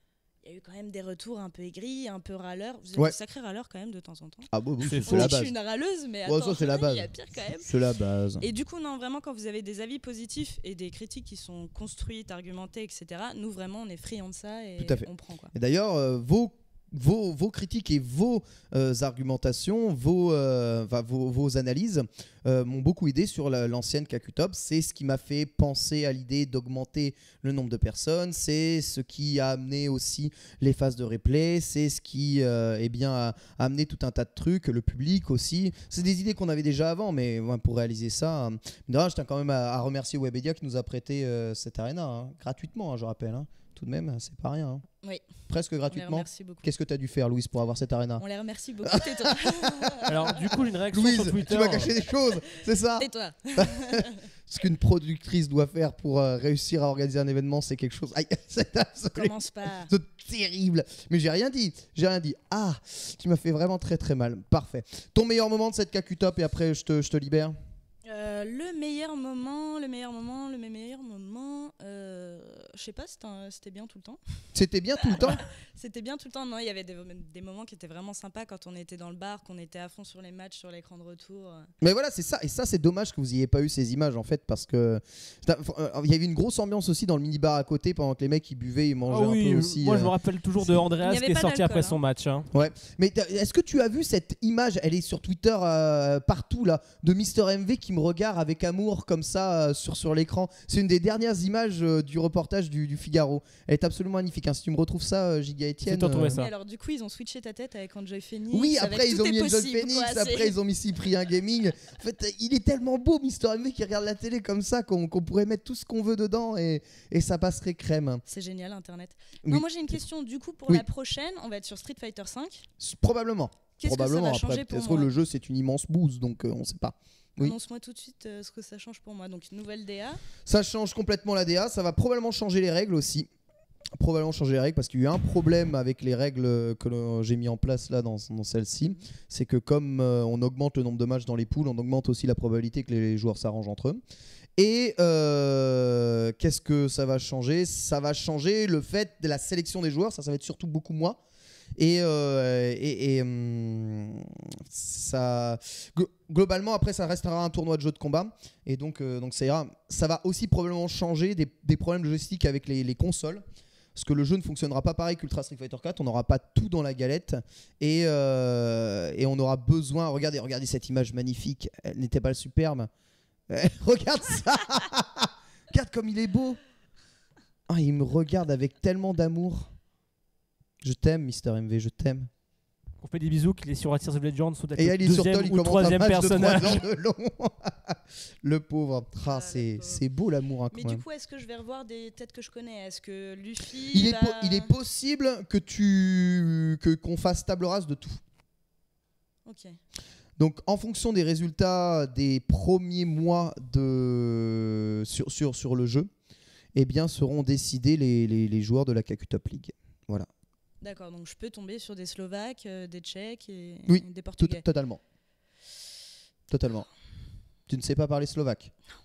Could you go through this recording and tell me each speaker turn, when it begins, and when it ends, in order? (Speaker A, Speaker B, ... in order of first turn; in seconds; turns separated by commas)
Speaker A: 0.4-4.5, Speaker B: 4.5-5.5, Speaker C: 4.8-5.3, Speaker A: 5.0-7.7, Speaker B: 6.3-7.1, Speaker B: 7.6-8.4, Speaker A: 8.4-15.5, Speaker B: 14.8-44.8, Speaker B: 45.5-48.2, Speaker A: 45.9-46.7, Speaker A: 48.2-50.1, Speaker B: 48.8-59.3, Speaker C: 50.1-51.9, Speaker A: 53.0-54.2, Speaker A: 59.1-59.9, Speaker B: 59.9-67.6, Speaker A: 68.1-74.2, Speaker B: 74.5-75.4, Speaker A: 75.2-81.7, Speaker B: 81.8-90.1, Speaker C: 89.1-92.5, Speaker A: 91.0-92.0, Speaker B: 92.5-106.4, Speaker C: 105.8-106.5, Speaker A: 106.3-110.5, Speaker B: 108.5-118.2, Speaker A: 118.3-122.7, Speaker B: 119.4-120.0, Speaker B: 122.8-127.5, Speaker A: 123.8-125.1, Speaker A: 127.4-130.2, Speaker B: 130.5-133.3, Speaker B: 134.0-144.0, Speaker B: 144.6-151.2, Speaker B: 151.8-163.4, Speaker B: 163.9-172.9, Speaker B: 173.5-176.6, Speaker B: 177.7-179.7, Speaker B: 180.8-182.3, Speaker C: 183.0-186.8, Speaker B: 184.8-191.0, Speaker A: 189.3-190.0, Speaker A: 190.7-194.7, Speaker B: 193.9-198.2, Speaker A: 199.5-199.8, Speaker B: 200.4-206.1, Speaker B: 206.8-210.3, Speaker A: 210.8-214.6, Speaker B: 213.9-215.0, Speaker B: 216.5-216.9, Speaker B: 217.7-218.7